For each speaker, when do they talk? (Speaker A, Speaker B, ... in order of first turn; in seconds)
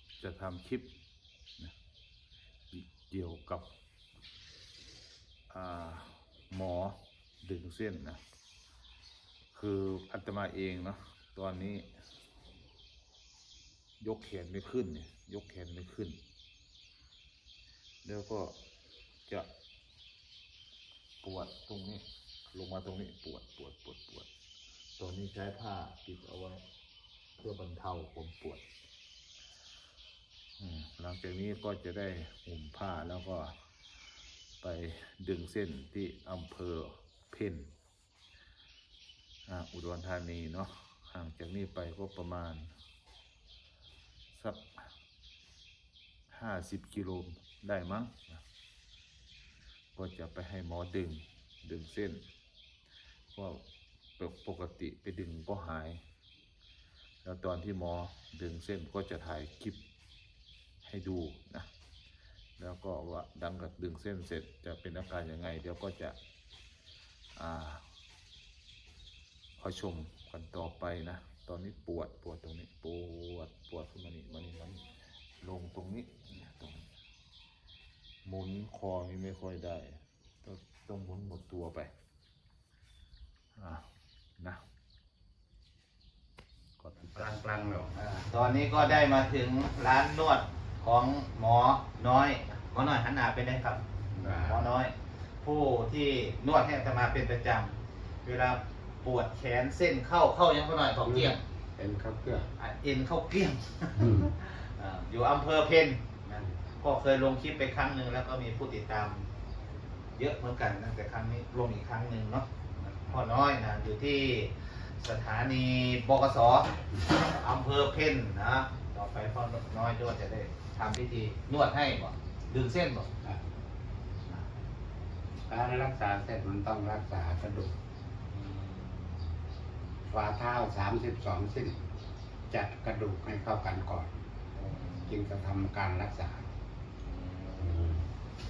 Speaker A: 0.2-0.9, 2.7-3.7, 5.5-8.2, 9.5-11.9, 14.0-16.2, 18.0-18.6, 21.2-24.3, 25.0-26.6, 27.4-28.6, 30.6-33.5, 34.6-37.7, 39.5-42.7, 44.3-44.9, 46.3-48.4, 50.0-52.2, 53.3-53.6, 54.2-56.0, 57.2-59.8, 60.9-61.7, 62.6-66.2, 67.4-67.8, 69.6-74.8, 75.4-76.9, 78.2-81.9, 83.6-83.8, 86.8-87.3
Speaker B: 88.0-94.9, 95.4-101.4, 102.6-109.3, 110.2-112.5, 113.1-123.1, 128.3-128.9, 134.6-135.1, 137.1-138.0
Speaker C: 94.2-94.7, 101.0-102.5, 104.0-104.3, 125.5-127.7, 130.1-131.8, 132.5-134.1, 135.1-136.5, 137.6-138.1